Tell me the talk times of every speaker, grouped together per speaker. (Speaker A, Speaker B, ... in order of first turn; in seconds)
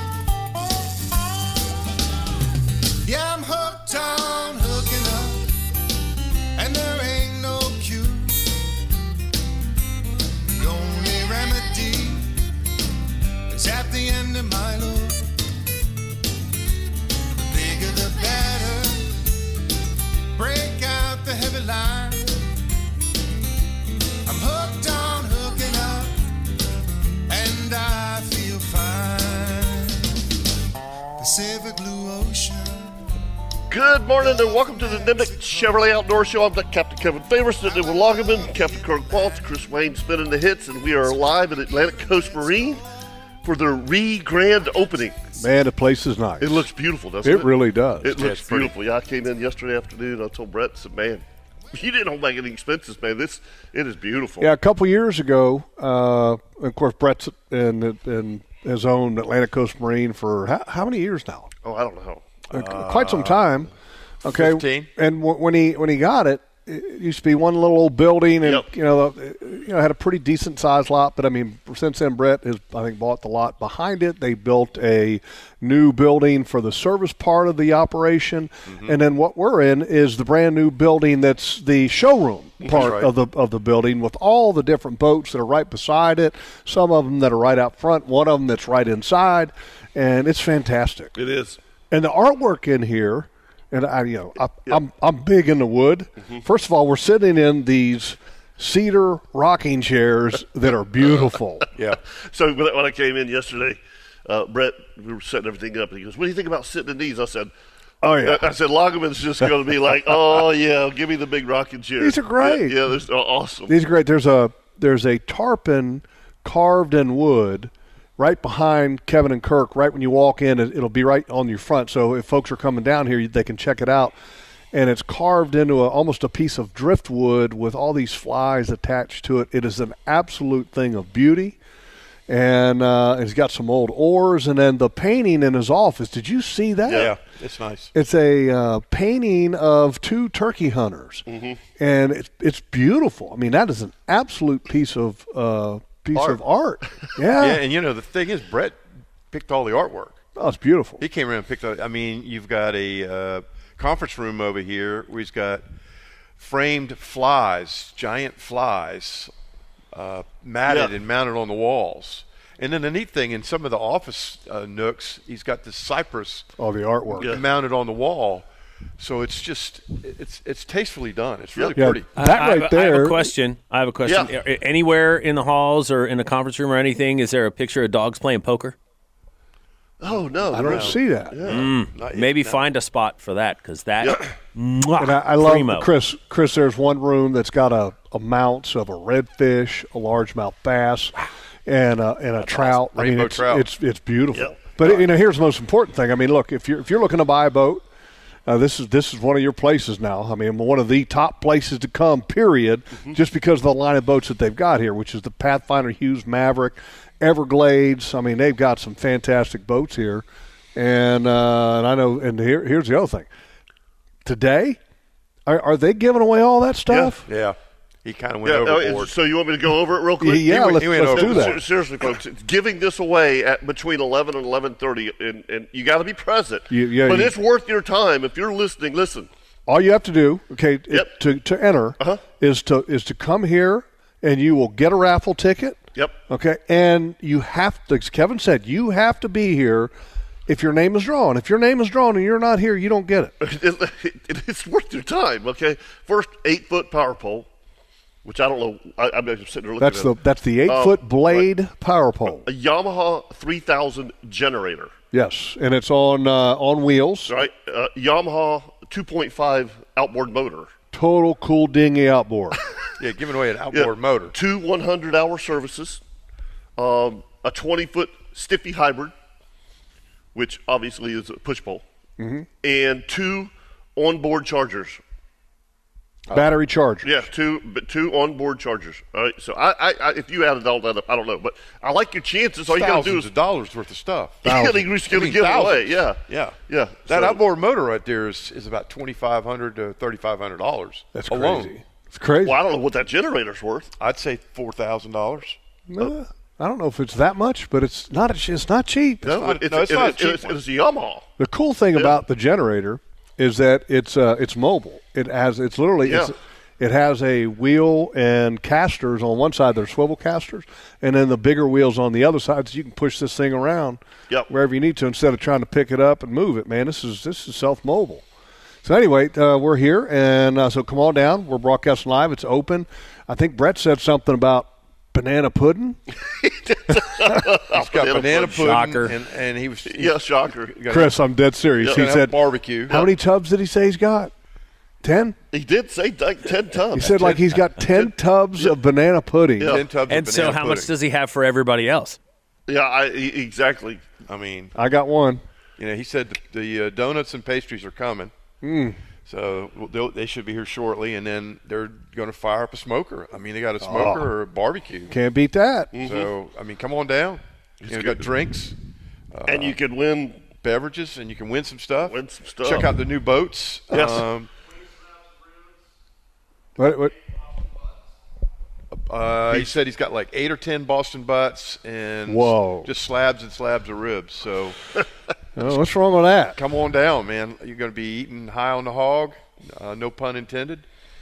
Speaker A: 3.0-5.6, 6.5-8.6, 10.5-12.4, 13.5-15.3, 17.4-19.2, 20.3-22.6, 24.2-26.3, 27.3-30.2, 31.2-32.9, 34.2-35.6, 37.8-38.5
Speaker B: 33.7-42.8, 43.4-45.2, 46.4-54.5, 61.6-62.2, 91.2-91.6, 102.1-107.5, 108.2-113.7, 136.9-137.1, 141.3-141.6, 146.1-146.4, 160.7-160.9, 174.0-174.3, 180.0-181.7, 184.0-184.3, 194.3-195.0, 218.4-229.3, 243.4-247.5, 248.2-250.1, 250.7-251.5, 252.4-254.9, 257.3-260.7, 263.7-266.0, 266.8-269.1, 270.3-271.8, 272.6-275.0, 277.0-283.3, 284.4-287.4, 292.4-293.9, 299.2-301.2, 306.0-306.3, 326.4-328.8, 329.9-330.8, 331.8-332.0, 335.5-338.7, 342.7-344.0, 355.9-356.3, 357.8-358.2, 359.5-360.4, 362.0-362.9, 363.9-364.2
Speaker C: 45.3-46.7, 47.2-48.2, 54.4-61.5, 62.5-63.7, 64.2-91.1, 91.9-101.7, 108.0-108.4, 112.0-112.8, 113.7-124.1, 124.7-131.6, 132.3-137.1, 137.9-141.2, 141.8-147.6, 150.3-151.0, 166.6-167.3, 171.8-173.3, 180.5-181.3, 185.0-197.8, 198.5-213.3, 214.2-214.8, 215.4-217.3, 220.2-221.6, 226.7-227.3, 229.7-239.9, 240.5-243.3, 249.8-252.5, 255.1-257.4, 260.9-262.6, 272.2-272.5, 276.3-277.2, 284.4-284.8, 291.1-292.6, 295.9-299.3, 301.4-318.2, 318.8-326.0, 330.9-334.3, 335.0-335.4, 336.9-339.8, 344.7-345.4, 348.6-349.0, 353.8-354.3, 355.1-355.9, 366.8-367.1, 372.3-372.9, 375.6-376.6
Speaker D: 48.2-48.7, 62.5-63.5, 64.2-64.9, 78.7-79.0, 82.7-83.1, 136.9-137.9, 147.4-148.8, 149.3-150.2, 151.0-155.6, 156.4-159.3, 159.9-166.5, 167.2-168.4, 169.0-172.1, 180.6-182.6, 192.4-193.7, 217.3-219.1, 220.7-221.6, 263.0-264.3, 282.7-291.7, 294.0-295.6, 299.3-300.6, 327.7-331.2, 331.9-332.9, 339.6-340.9, 344.3-344.7, 345.8-348.3, 349.2-355.1, 356.0-358.7, 359.3-359.8, 360.6-364.5, 368.9-374.8, 376.5-380.8
Speaker E: 172.1-178.7, 181.4-185.9, 328.6-329.1, 340.1-342.2